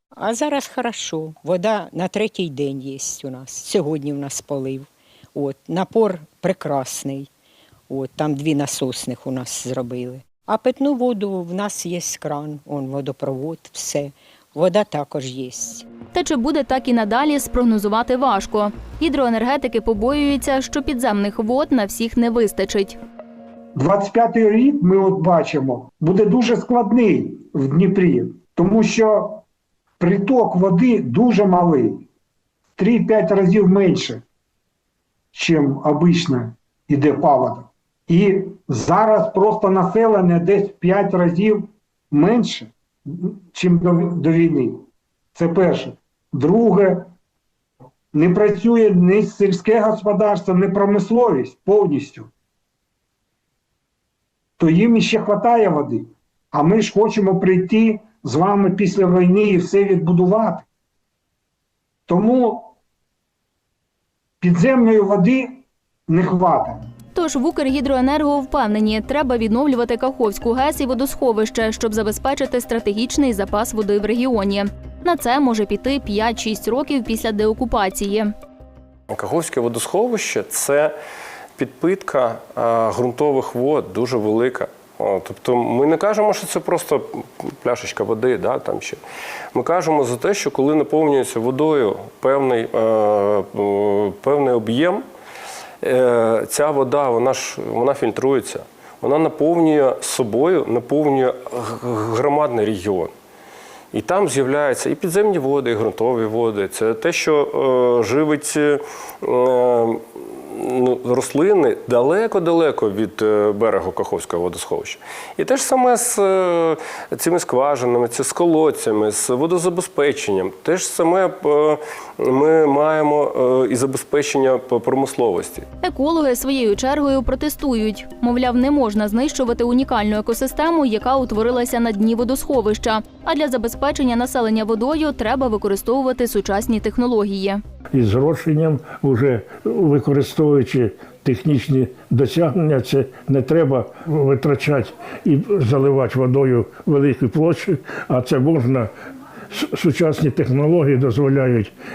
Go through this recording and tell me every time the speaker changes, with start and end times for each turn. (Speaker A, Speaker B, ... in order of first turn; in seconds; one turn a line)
Speaker A: 0.2-7.3
Speaker A: 7.9-15.9
Speaker B: 16.1-23.0
Speaker C: 23.8-29.4
Speaker C: 30.0-32.0
Speaker C: 32.8-34.2
Speaker C: 35.3-44.8
Speaker C: 45.4-47.1
Speaker C: 48.1-52.3
Speaker C: 54.6-60.7
Speaker C: 62.1-62.7
Speaker C: 64.4-66.8
Speaker B: 67.2-78.3
Speaker D: 79.1-80.9
Speaker D: 81.6-89.0
Speaker D: 89.5-95.0
Speaker D: 95.8-103.1
Speaker D: 103.9-125.7
Speaker B: 125.8-137.6
Speaker E: 137.9-148.9
Speaker E: 149.5-151.8